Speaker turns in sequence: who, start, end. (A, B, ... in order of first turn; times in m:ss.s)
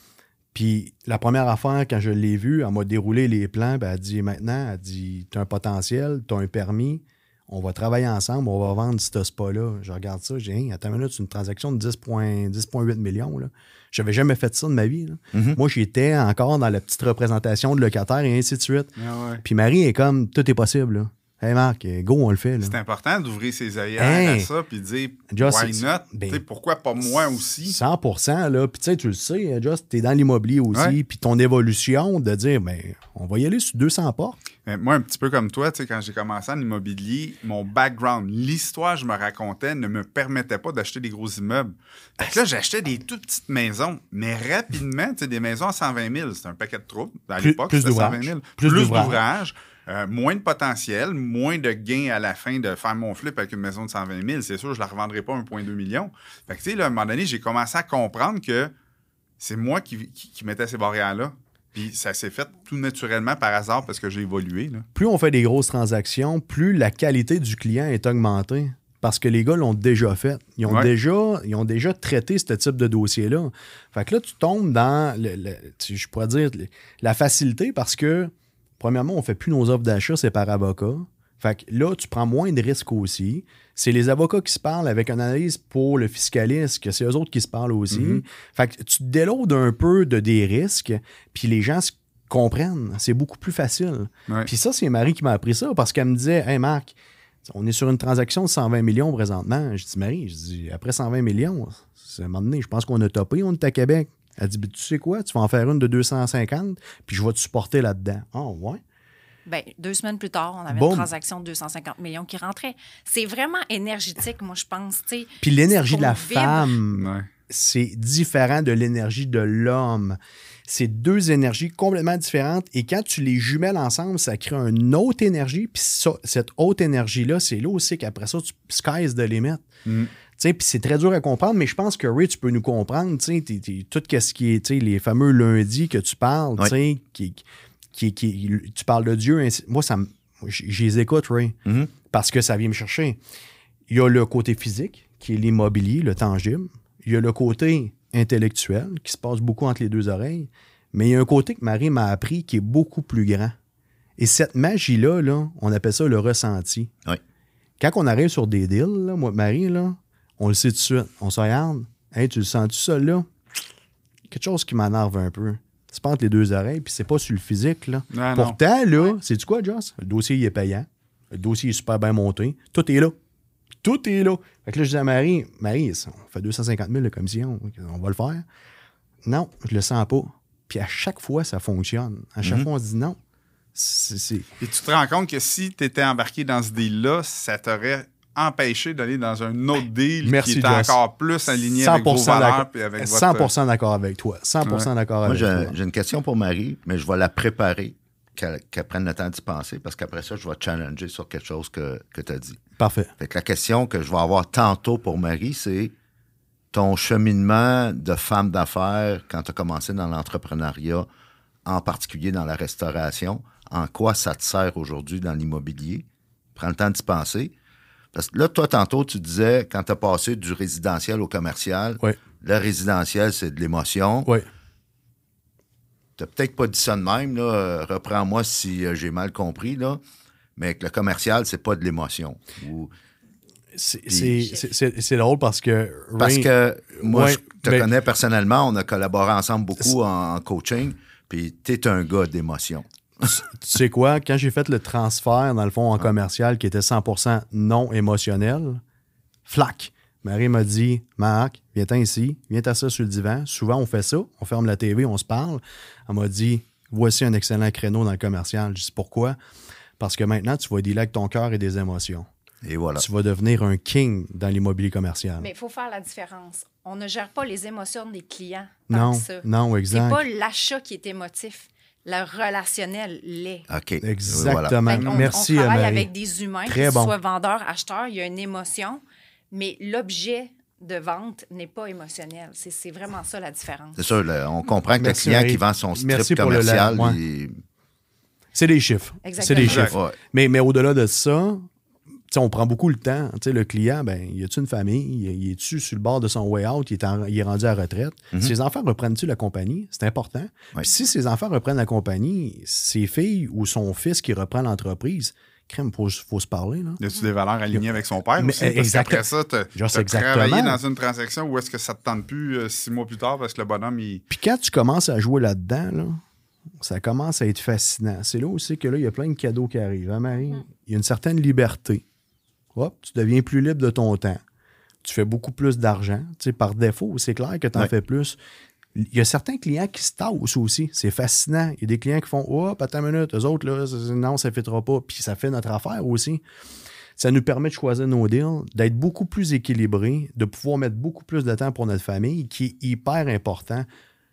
0:00.5-0:18.9 A
0:15.3-0:15.6 B
0:19.0-0:19.4 C
0:19.4-0:22.8 A
0:22.6-0:27.8 C
0:24.0-0:24.5 A
0:25.3-0:26.4 A
0:27.6-0:34.4 A
0:34.7-0:58.7 C
0:47.4-0:49.2 A
0:59.4-1:04.8 C
1:05.0-1:48.8 A
1:10.7-1:10.9 C
1:27.9-1:28.2 C
1:49.5-1:56.7 D
1:50.7-1:51.1 A
1:55.4-2:09.6 A
1:56.9-1:57.3 C
2:09.9-2:10.1 C
2:10.4-2:23.2 A
2:21.6-2:21.9 B
2:23.9-2:33.5 A
2:34.2-2:36.9 A
2:37.8-2:43.3 A
2:44.3-2:53.2 A
2:48.1-2:48.6 C
2:53.8-2:58.4 A
2:59.2-3:03.2 A
3:03.8-3:04.5 A
3:04.6-3:13.5 C
3:10.2-3:11.0 A
3:11.7-3:15.8 A
3:15.3-3:22.6 B
3:22.8-3:23.1 A
3:23.2-3:25.9 B
3:26.7-3:31.1 B
3:31.6-3:36.0 B
3:36.6-3:37.5 B
3:38.1-3:44.3 B
3:46.2-3:50.0 B
3:50.6-3:52.9 B
3:53.8-3:56.5 A
3:54.1-3:54.5 B
3:56.2-4:03.4 B
3:57.0-3:57.9 A
4:03.2-4:08.8 A
4:09.5-4:19.4 A
4:20.0-4:22.3 A
4:22.6-4:23.1 B
4:23.0-4:25.5 A
4:25.4-4:33.7 D
4:28.9-4:30.2 A
4:33.7-4:35.3 B
4:34.0-4:36.1 A
4:34.8-4:44.0 D
4:36.6-4:37.1 A
4:44.0-4:47.6 B
4:45.0-4:47.2 A
4:48.5-4:51.7 A
4:49.2-4:49.9 D
4:49.6-4:50.0 C
4:49.8-4:50.2 B
4:52.3-5:07.0 A
5:07.0-5:14.2 C
5:08.4-5:10.8 A
5:14.3-5:16.2 A
5:16.8-5:22.0 A
5:22.8-5:24.4 A
5:25.0-5:28.4 A
5:29.0-5:36.4 A
5:37.2-5:43.9 A